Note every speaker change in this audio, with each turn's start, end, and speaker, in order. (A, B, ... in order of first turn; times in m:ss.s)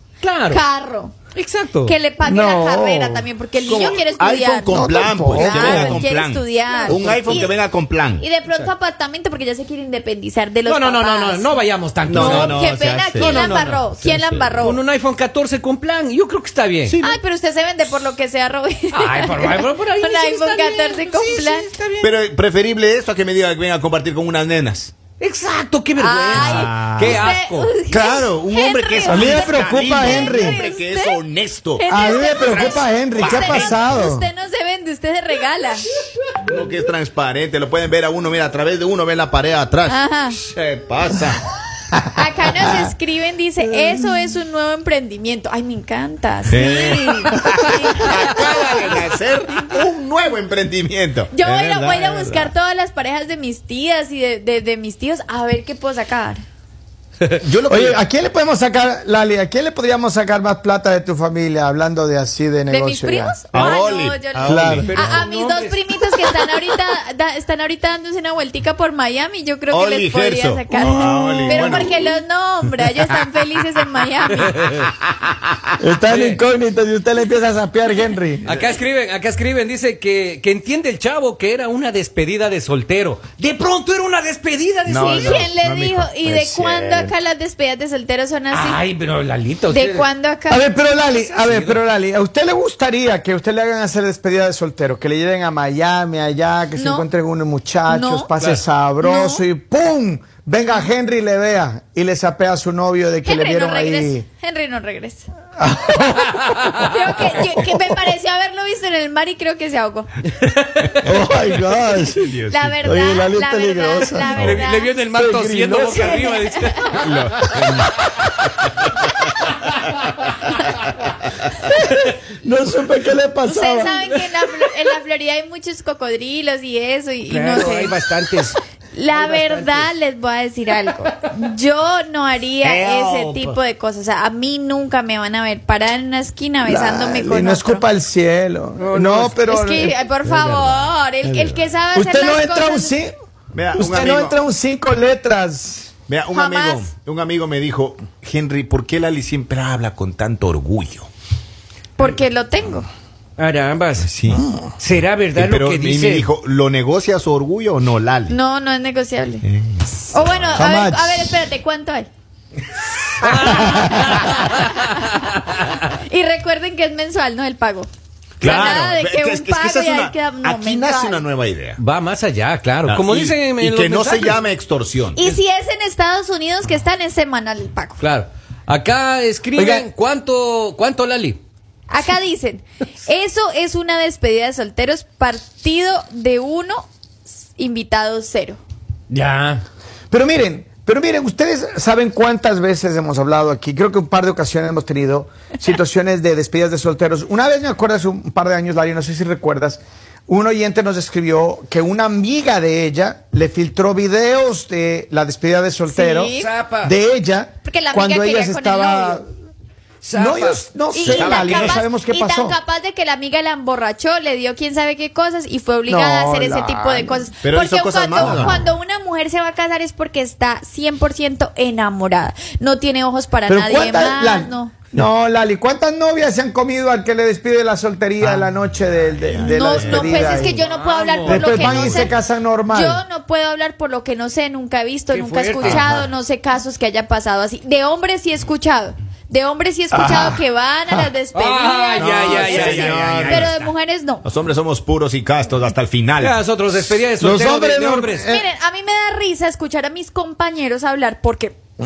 0:00.2-0:00.6 A
0:00.5-0:01.1 B
0:01.3-0:01.9 A
0:01.8-0:07.5 B
0:02.2-0:03.3 C
0:03.7-0:08.2 D
0:04.7-0:06.1 C
0:06.7-0:07.5 A
0:08.2-0:11.5 B
0:10.6-0:13.8 A
0:12.0-0:14.6 D
0:12.1-0:14.8 B
0:14.6-0:17.0 A
0:16.8-0:17.2 D
0:17.0-0:21.7 B
0:18.9-0:22.1 A
0:22.0-0:24.9 D
0:25.2-0:27.8 A
0:26.0-0:31.2 B
0:26.3-0:27.3 D
0:27.9-0:34.0 D
0:29.0-0:30.6 C
0:31.8-0:35.8 B
0:31.9-0:34.3 C
0:36.4-0:41.4 D
0:39.9-0:40.4 B
0:42.1-0:49.0 B
0:46.5-0:52.5 D
0:51.3-0:56.4 B
0:57.4-0:58.0 D
0:57.6-1:03.7 C
1:02.7-1:14.6 B
1:03.5-1:05.2 D
1:04.4-1:05.0 C
1:04.8-1:06.4 A
1:09.7-1:12.0 D
1:10.7-1:12.0 C
1:14.5-1:14.9 A
1:15.8-1:18.5 C
1:16.0-1:16.4 A
1:18.4-1:25.5 A
1:24.9-1:26.1 D
1:24.9-1:28.8 B
1:26.2-1:27.1 C
1:28.5-1:30.1 A
1:29.7-1:30.7 B
1:30.5-1:44.2 C
1:31.0-1:31.8 A
1:36.8-1:37.0 B
1:37.9-1:38.3 B
1:38.4-1:38.6 A
1:39.0-1:39.4 B
1:43.2-1:45.3 B
1:45.6-1:47.9 C
1:46.3-1:46.8 A
1:46.8-1:50.1 B
1:50.4-1:50.9 A
1:51.0-1:54.3 C
1:52.1-1:53.0 D
1:52.5-1:55.0 B
1:54.4-1:54.6 D
1:54.4-1:57.7 A
1:55.1-1:56.3 C
1:55.9-1:57.0 B
1:57.0-1:58.1 D
2:01.6-2:04.0 C
2:03.5-2:08.0 B
2:07.3-2:08.6 A
2:08.9-2:17.8 B
2:09.1-2:09.9 A
2:12.6-2:13.6 D
2:16.6-2:19.9 C
2:18.8-2:19.4 A
2:19.5-2:23.0 B
2:20.2-2:20.9 A
2:21.2-2:21.6 D
2:21.9-2:23.1 C
2:23.5-2:24.4 D
2:23.7-2:25.9 C
2:26.1-2:31.1 D
2:26.3-2:26.9 B
2:32.0-2:32.9 B
2:33.4-2:34.1 A
2:34.0-2:34.5 D
2:34.4-2:34.6 C
2:34.8-2:36.3 A
2:35.3-2:38.4 D
2:38.3-2:39.4 B
2:39.4-2:40.6 D
2:40.1-2:42.1 B
2:40.6-2:41.3 C
2:43.2-2:45.6 A
2:43.2-2:43.5 D
2:43.5-2:44.0 C
2:43.6-2:47.9 B
2:48.4-2:51.2 B
2:48.4-2:51.8 D
2:51.8-2:54.4 A
2:52.9-2:55.2 D
2:55.2-2:58.0 B
2:58.0-3:01.4 A
2:59.6-2:59.9 C
3:01.9-3:06.9 B
3:07.5-3:08.6 B
3:09.1-3:09.6 A
3:10.1-3:29.2 C
3:25.9-3:26.5 B
3:26.3-3:26.9 A
3:27.6-3:29.2 B
3:30.0-3:31.5 A
3:30.1-3:32.6 C
3:30.9-3:44.7 B
3:31.0-3:31.7 D
3:35.9-3:37.2 C
3:37.4-3:38.7 D
3:38.2-3:38.6 C
3:43.5-3:50.6 C
3:48.2-3:50.5 D
3:49.4-4:04.2 B
3:50.5-3:52.1 A
3:51.2-3:53.0 C
3:55.1-3:55.9 A
3:59.9-4:01.1 C
4:01.3-4:03.7 A
4:02.0-4:03.5 D
4:04.2-4:06.4 D
4:06.2-4:08.3 A
4:07.2-4:08.4 C
4:08.3-4:11.6 B